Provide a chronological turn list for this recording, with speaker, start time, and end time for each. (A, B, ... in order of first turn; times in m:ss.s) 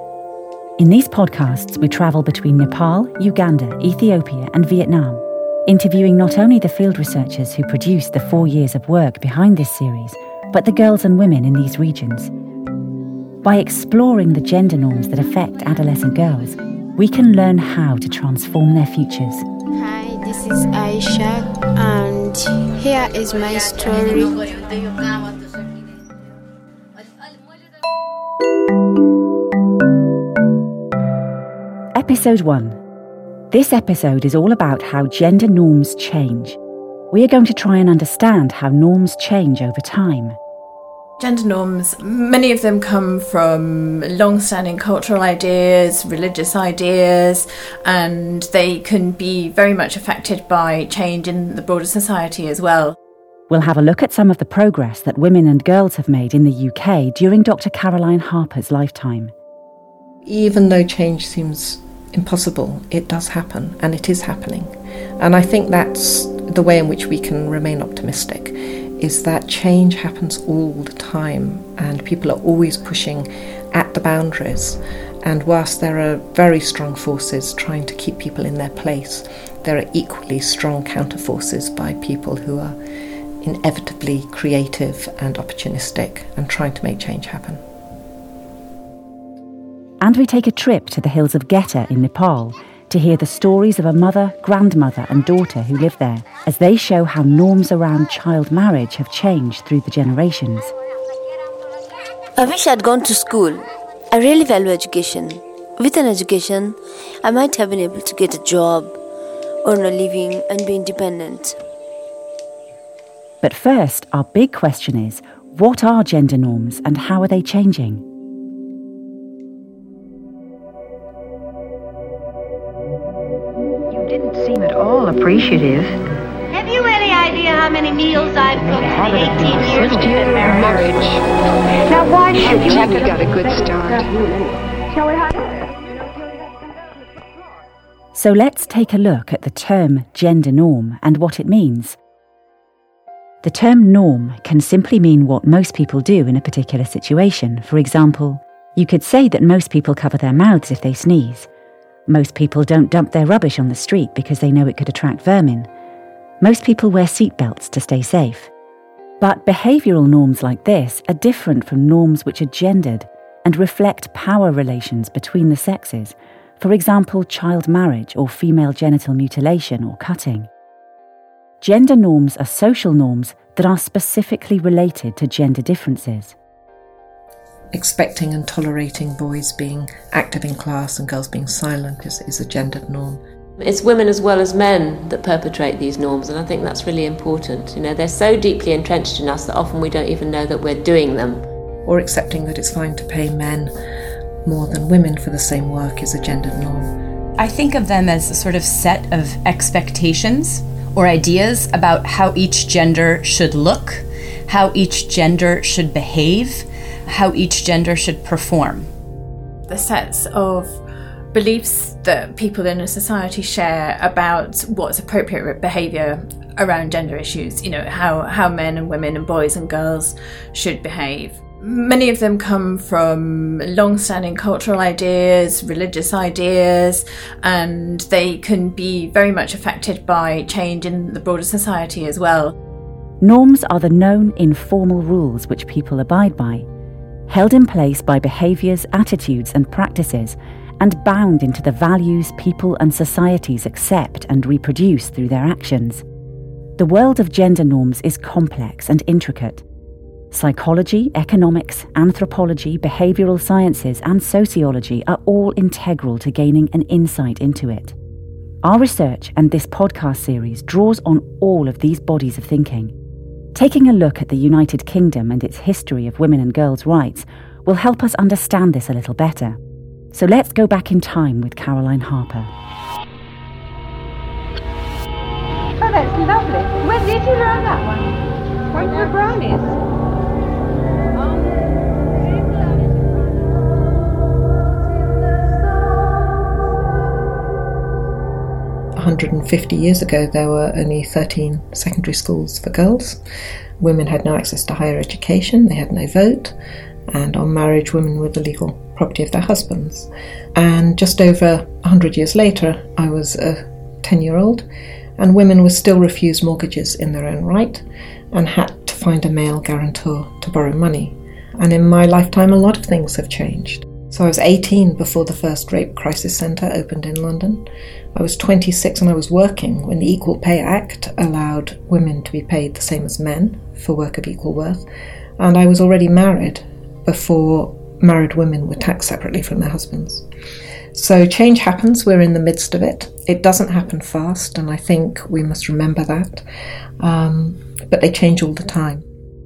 0:00.8-0:12.3 A
0:13.4-0:19.5 A
0:19.7-0:24.5 B
0:32.0-0:32.8 A
0:33.5-0:36.6 A
0:37.1-0:40.4 A
0:41.2-0:53.0 C
0:53.5-0:59.3 A
1:00.2-1:22.8 D
1:23.4-1:27.6 D
1:30.0-1:40.7 A
1:42.4-1:49.0 E
1:49.6-1:51.6 E
1:53.4-1:58.0 A
2:03.9-2:04.6 F
2:05.2-2:05.6 F
2:06.5-2:11.1 G
2:09.0-2:11.2 H
2:11.9-2:14.1 H
2:18.2-2:22.0 A
2:23.4-2:31.5 A
2:32.1-2:35.7 A
2:36.4-2:38.5 A
2:39.2-2:50.5 A
2:51.6-2:56.4 A
2:57.7-3:03.2 D
3:03.6-3:11.4 I
3:11.8-3:13.7 D
3:14.4-3:16.9 D
3:17.4-3:28.9 J
3:29.7-3:30.8 C
3:31.3-3:52.6 C
3:53.2-3:56.7 A
3:57.3-4:06.0 A
4:06.8-4:09.6 A
4:10.3-4:18.0 A
4:18.6-4:22.9 A
4:23.5-4:29.6 A
4:30.1-4:32.5 A
4:35.8-4:38.2 F
4:38.7-4:39.8 F
4:49.0-4:53.2 D
4:53.8-4:56.6 D
4:57.1-5:04.7 D
5:05.2-5:24.8 D
5:25.4-5:30.3 D
5:30.9-5:36.4 D
5:37.0-5:39.0 D